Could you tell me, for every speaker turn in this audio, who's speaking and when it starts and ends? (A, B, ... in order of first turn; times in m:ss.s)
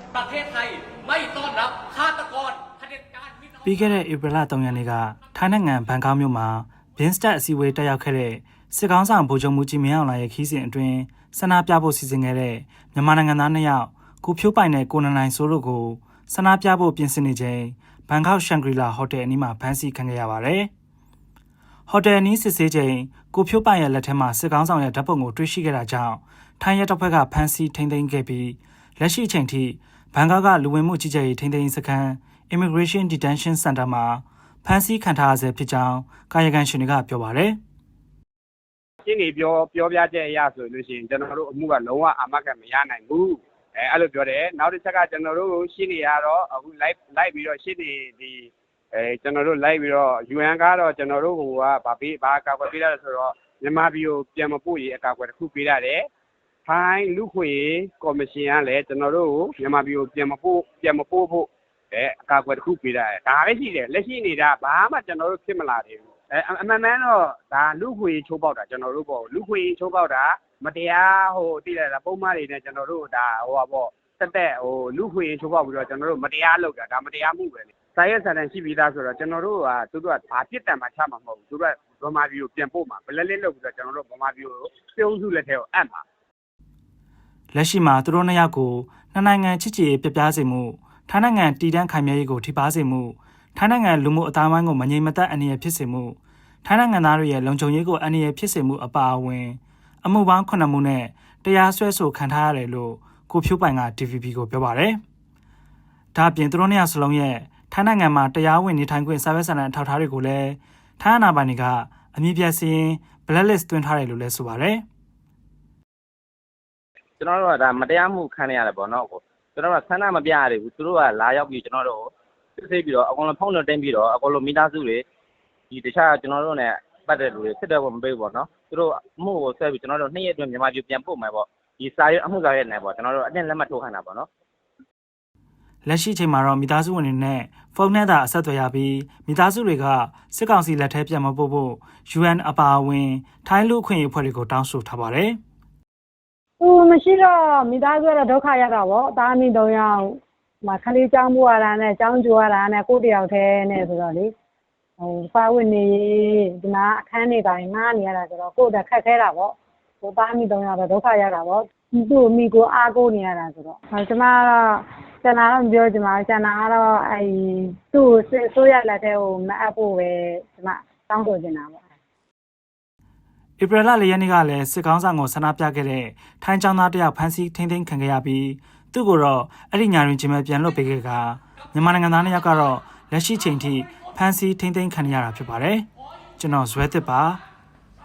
0:00.2-0:02.8 A
0:03.6-0:20.7 B
0:21.9-0:37.6 B
0:39.0-0:56.1 C
0:56.6-1:26.0 C
1:27.5-1:45.0 B
1:46.1-1:54.8 B
1:57.2-2:05.0 D
2:05.7-2:14.3 D
2:15.8-2:25.4 B
2:26.6-2:34.3 E
2:35.0-2:51.8 E
2:53.6-3:05.9 B
3:06.4-3:07.4 B